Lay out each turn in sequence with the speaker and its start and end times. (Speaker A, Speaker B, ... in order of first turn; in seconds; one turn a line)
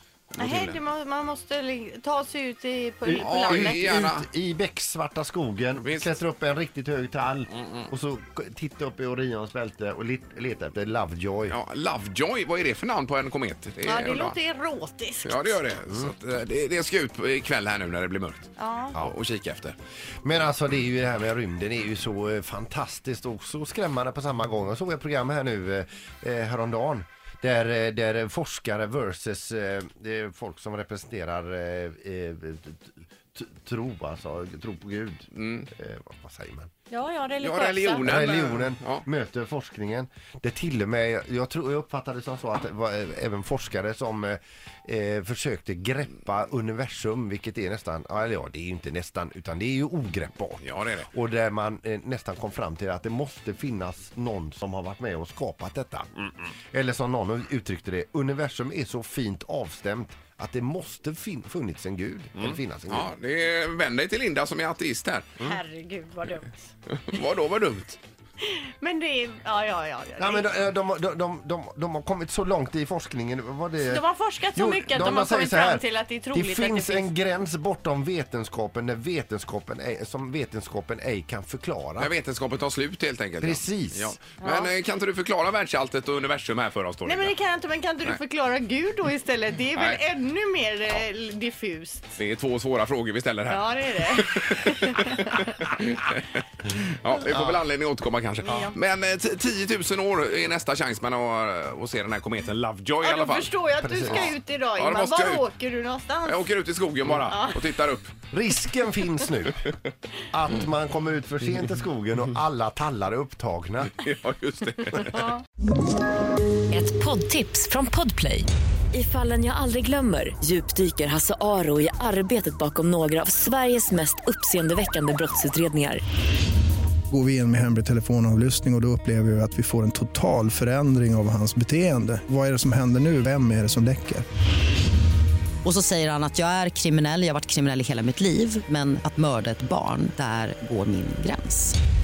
Speaker A: 0.3-0.8
Speaker B: 0.3-4.0
Speaker C: 3.1-11.6
Speaker A: 3.1-4.3
Speaker A: 7.5-7.9
Speaker A: 11.5-14.4
Speaker B: 13.8-15.6
Speaker A: 15.2-19.8
Speaker B: 18.6-18.9
Speaker C: 20.2-36.7
Speaker A: 35.3-35.7
Speaker B: 36.9-38.1
Speaker A: 37.4-39.0
Speaker C: 38.0-56.1
Speaker A: 50.6-51.1
Speaker C: 56.7-63.1
Speaker A: 62.4-65.5
Speaker B: 65.4-66.6
Speaker A: 66.8-68.0
Speaker B: 68.4-70.5
Speaker C: 70.2-82.1
Speaker B: 73.8-77.1
Speaker A: 82.0-87.3
Speaker C: 83.4-84.2
Speaker B: 84.4-84.7
Speaker B: 87.0-92.1
Speaker A: 89.7-90.0
Speaker A: 92.2-105.5
Speaker B: 93.5-95.5
Speaker B: 98.4-98.7
Speaker B: 103.0-106.4
Speaker C: 103.8-104.3
Speaker A: 106.2-108.2
Speaker B: 107.2-107.5
Speaker C: 108.3-109.6
Speaker C: 110.3-113.9
Speaker A: 113.9-115.3
Speaker B: 115.1-115.4
Speaker D: 116.7-126.0
Speaker E: 127.1-134.2
Speaker F: 135.6-141.7